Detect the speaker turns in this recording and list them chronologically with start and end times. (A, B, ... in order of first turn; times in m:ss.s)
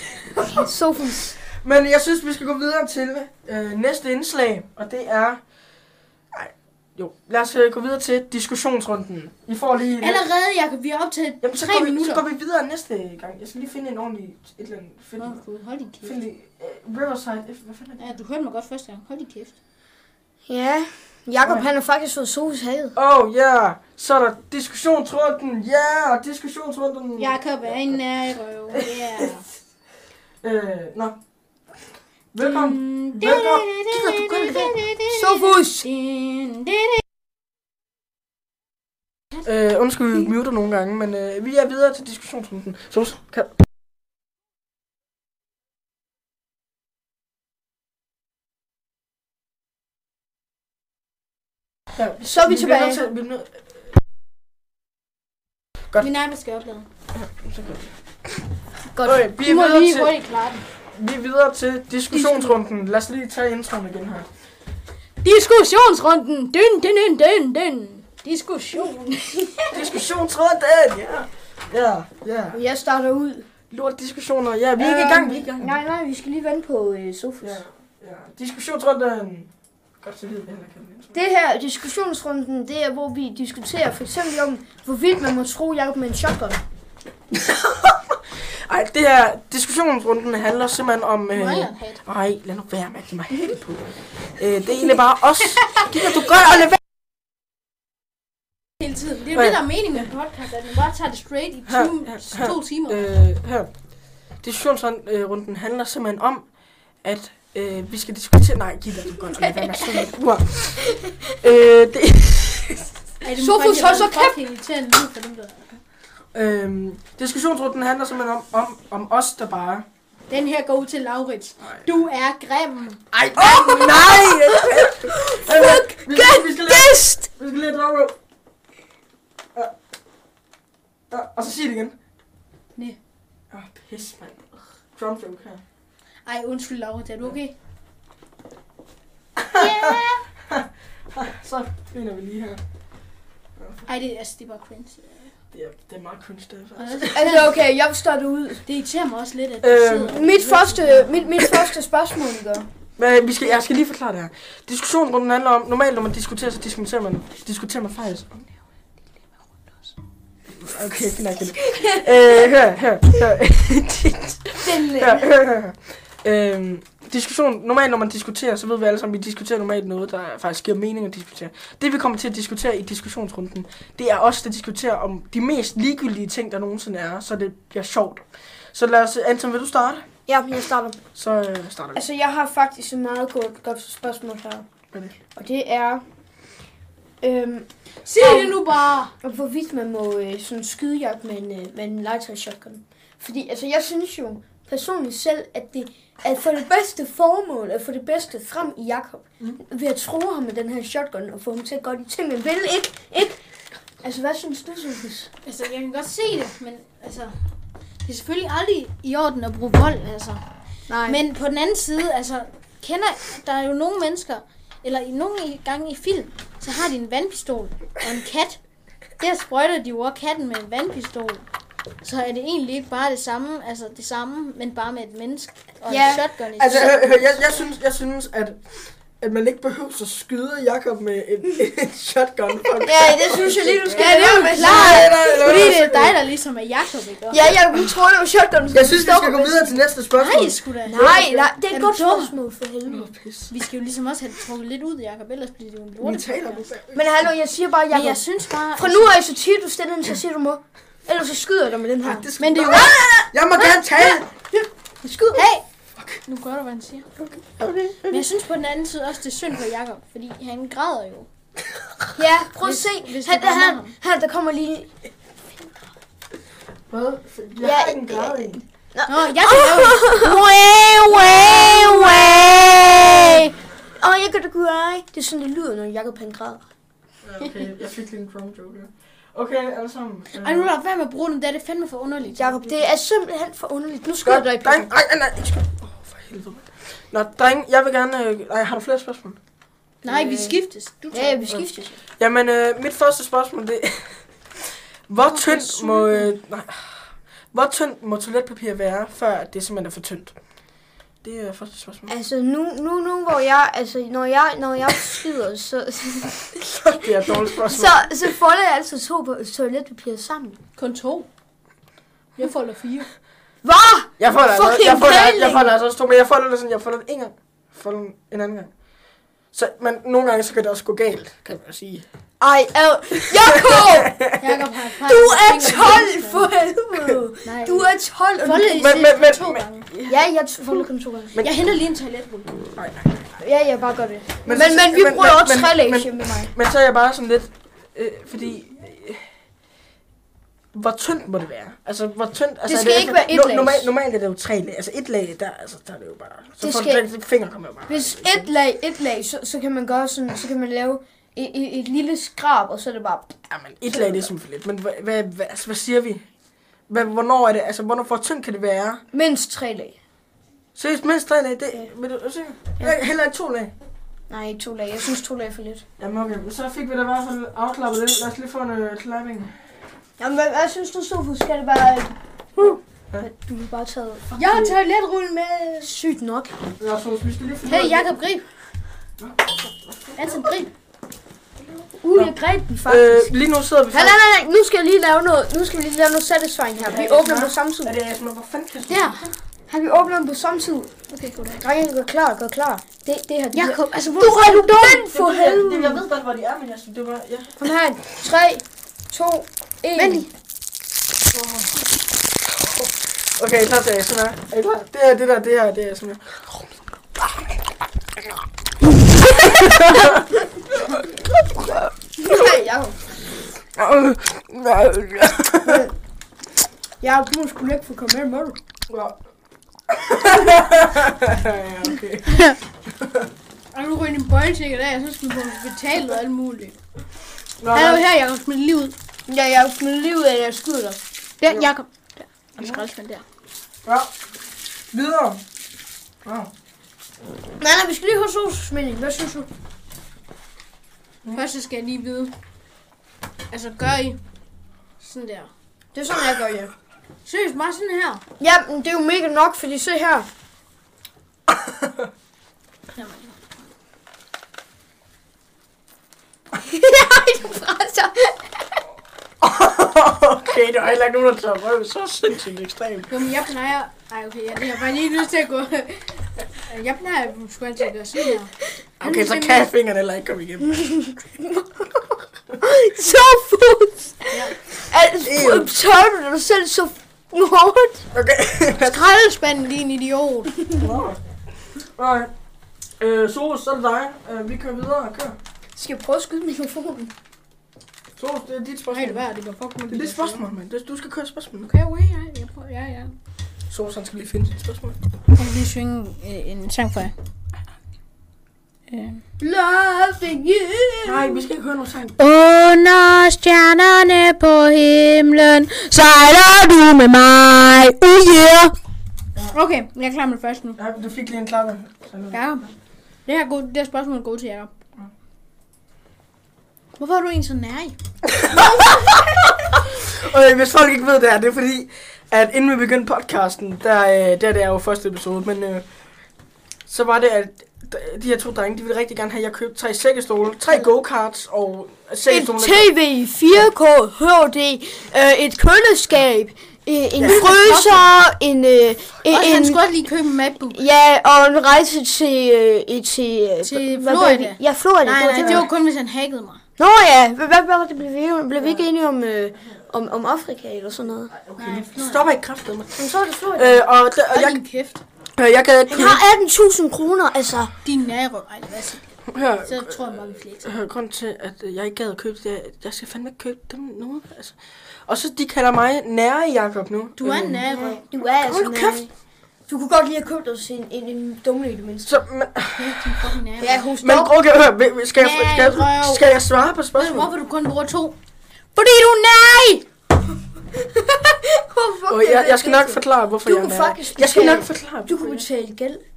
0:00.3-0:00.7 A
0:00.4-0:01.4 B
0:01.5-0:05.4 A
0:06.3-0:10.2 A
0:10.0-0:12.2 C
0:11.4-0:15.4 A
0:15.2-0:16.2 C
0:16.0-0:18.1 A
0:18.0-0:19.6 C
0:20.5-0:23.0 B
0:21.4-0:21.7 A
0:23.0-0:27.9 A
0:27.2-0:29.4 C
0:28.7-0:29.4 A
0:30.4-0:31.2 A
0:32.3-0:34.8 A
0:32.4-0:37.0 C
0:35.1-0:35.9 B
0:39.4-0:43.6 A
0:51.9-0:54.0 A
0:52.2-0:53.1 B
0:56.0-0:56.9 C
0:57.1-0:57.9 A
0:58.9-0:59.2 B
0:59.0-1:00.2 A
0:59.4-1:00.6 C
1:00.9-1:04.3 A
1:02.1-1:02.6 C
1:05.2-1:09.8 C
1:09.7-1:12.6 A
1:12.5-1:13.5 B
1:13.7-1:15.8 A
1:14.8-1:17.6 B
1:17.4-1:19.5 A
1:20.0-1:21.2 A
1:21.1-1:26.6 B
1:27.3-1:36.8 A
1:31.3-1:32.0 C
1:38.8-1:43.1 C
1:39.3-1:40.1 A
1:41.7-1:43.7 A
1:44.4-1:46.4 A
1:47.0-1:52.9 A
1:49.4-1:50.1 B
1:53.2-1:55.8 C
1:53.3-1:54.4 B
1:56.3-1:59.8 A
2:00.3-2:03.0 C
2:03.1-2:08.2 A
2:03.4-2:07.2 B
2:11.1-2:12.0 A
2:13.5-2:15.6 A
2:16.2-2:17.5 C
2:19.4-2:22.6 A
2:19.5-2:20.2 C
2:23.8-2:25.3 C
2:25.5-2:27.4 A
2:26.8-2:27.5 C
2:27.1-2:28.6 B
2:28.6-2:31.2 C
2:29.6-2:30.2 A
2:30.1-2:32.7 B
2:33.0-2:38.5 A
2:40.5-3:00.0 A
2:41.6-2:42.3 B
2:44.6-2:45.3 B
3:00.3-3:01.0 B
3:01.1-3:02.0 A
3:01.9-3:04.6 B
3:04.9-3:05.2 A
3:05.3-3:06.0 B
3:07.2-3:08.6 B
3:08.0-3:09.1 C
3:09.2-3:23.4 B
3:24.0-3:25.3 B
3:25.4-3:27.3 C
3:28.0-3:30.4 C
3:30.9-3:31.2 B
3:31.0-3:38.6 C
3:39.2-3:41.4 C
3:42.0-3:47.0 C
3:45.9-3:47.1 B
3:46.6-3:56.2 A
3:52.8-3:55.7 B
3:53.9-3:57.5 C
3:57.3-3:59.8 B
3:58.7-4:01.2 A
4:00.2-4:02.3 C
4:00.8-4:03.1 B
4:02.8-4:03.5 A
4:03.5-4:06.6 C
4:06.0-4:07.2 A
4:06.9-4:08.2 B
4:07.9-4:09.2 C
4:08.8-4:15.4 B
4:12.0-4:14.3 A
4:12.4-4:13.0 C
4:15.0-4:15.4 A
4:15.3-4:15.6 C
4:16.0-4:16.2 A
4:16.2-4:17.1 C
4:17.3-4:18.2 A
4:18.1-4:21.3 C
4:22.2-4:24.9 B
4:22.6-4:23.9 C
4:26.9-4:28.6 A
4:27.6-4:30.4 B
4:29.1-4:33.6 C
4:31.4-4:33.4 B
4:34.0-4:36.6 B
4:37.2-4:40.7 A
4:40.3-4:42.8 C
4:42.3-4:44.9 B
4:44.2-4:49.4 A
4:50.0-4:51.6 C
4:50.0-4:50.6 B
4:51.1-4:52.0 B
4:52.2-5:00.3 A
4:55.3-4:56.2 B
5:01.2-5:02.1 A
5:02.1-5:06.7 B
5:06.7-5:08.1 A
5:07.5-5:10.6 B
5:10.8-5:11.3 C
5:12.4-5:13.1 C
5:13.6-5:15.7 B
5:14.2-5:18.7 A
5:19.5-5:22.0 A
5:22.4-5:24.2 B
5:23.2-5:24.4 A
5:24.4-5:26.4 C
5:25.0-5:28.8 B
5:26.9-5:27.2 A
5:27.4-5:29.9 C
5:28.7-5:30.2 A
5:30.1-5:31.4 B
5:31.3-5:31.6 A
5:31.4-5:32.6 C
5:32.8-5:33.2 A
5:33.4-5:36.5 B
5:34.4-5:39.2 A
5:40.7-5:48.5 A
5:42.6-5:43.9 B
5:46.6-5:47.0 B
5:47.9-5:54.3 B
5:53.5-5:56.2 A
5:56.9-5:59.0 A
5:59.1-6:00.0 B
6:00.7-6:03.7 A
6:04.3-6:05.8 B
6:06.0-6:09.5 A
6:10.2-6:14.3 B
6:12.6-6:13.3 A
6:14.3-6:15.9 C
6:14.3-6:14.7 A
6:15.8-6:16.6 B
6:16.8-6:18.1 A
6:17.6-6:18.5 C
6:19.2-6:20.6 A
6:20.2-6:20.7 C
6:21.6-6:22.3 A
6:22.0-6:23.3 B
6:22.8-6:24.2 A
6:23.9-6:27.9 B
6:26.8-6:29.2 A
6:28.8-6:29.3 C
6:29.7-6:30.9 B
6:31.1-6:31.6 C
6:31.6-6:36.0 B
6:33.5-6:35.1 C
6:35.0-6:37.7 A
6:37.6-6:40.3 B
6:40.0-6:40.3 C
6:41.3-6:41.7 A
6:42.4-6:47.6 A
6:49.2-6:50.2 A
6:50.8-6:52.5 A
6:52.2-6:53.0 B
6:53.8-6:55.8 A
6:55.6-6:55.9 B
6:57.0-6:58.6 B
6:58.9-6:59.2 A
6:59.9-7:03.3 A
7:03.7-7:06.8 C
7:07.6-7:08.0 A
7:07.7-7:08.9 C
7:09.3-7:11.0 B
7:11.4-7:13.2 C
7:13.8-7:14.1 A
7:14.9-7:15.4 A
7:16.2-7:16.5 A
7:17.6-7:19.5 B
7:21.3-7:22.3 C
7:23.5-7:24.2 C
7:25.0-7:25.5 C
7:25.9-7:26.7 B
7:27.2-7:28.2 C
7:28.4-7:30.3 B
7:31.5-7:32.1 A
7:33.0-7:33.6 C
7:36.6-7:38.4 B
7:39.4-7:43.1 A
7:43.1-7:49.7 C
7:49.0-7:50.9 A
7:52.6-7:58.0 B
7:54.3-7:54.6 C
7:55.2-7:55.7 A
7:58.1-7:59.0 A
7:58.8-8:00.7 C
8:00.8-8:01.2 A
8:02.0-8:02.3 A
8:03.0-8:05.4 A
8:05.7-8:07.1 B
8:08.2-8:09.2 A
8:08.9-8:10.4 C
8:09.9-8:11.7 A
8:11.6-8:13.2 C
8:13.7-8:15.0 A
8:15.3-8:17.1 C
8:18.9-8:19.2 C
8:19.4-8:21.4 B
8:21.0-8:22.2 A
8:22.2-8:28.7 C
8:29.5-8:30.8 C
8:30.8-8:32.4 A
8:32.3-8:32.7 C
8:33.2-8:34.7 C
8:37.0-8:38.0 C
8:38.2-8:45.8 A
8:46.9-8:52.9 A
8:52.3-8:59.8 B
8:57.2-8:57.7 A
8:57.2-8:58.1 C
8:59.3-9:00.8 C
9:00.7-9:05.7 B
9:03.6-9:06.6 C
9:05.4-9:05.7 A
9:06.8-9:11.3 B
9:08.6-9:08.8 A
9:11.3-9:14.6 A
9:11.6-9:12.3 C
9:13.0-9:13.9 B
9:14.3-9:15.0 C
9:15.4-9:16.2 A
9:15.9-9:17.7 B
9:17.8-9:20.8 C
9:19.3-9:29.1 A
9:27.2-9:28.0 C
9:27.7-9:29.1 B
9:29.7-9:32.2 B
9:32.0-9:33.1 A
9:32.8-9:33.9 C
9:33.6-9:34.3 B
9:34.0-9:37.3 A
9:35.2-9:36.2 C
9:36.9-9:38.2 C
9:38.7-9:39.8 C
9:41.4-9:46.0 B
9:42.1-9:45.4 A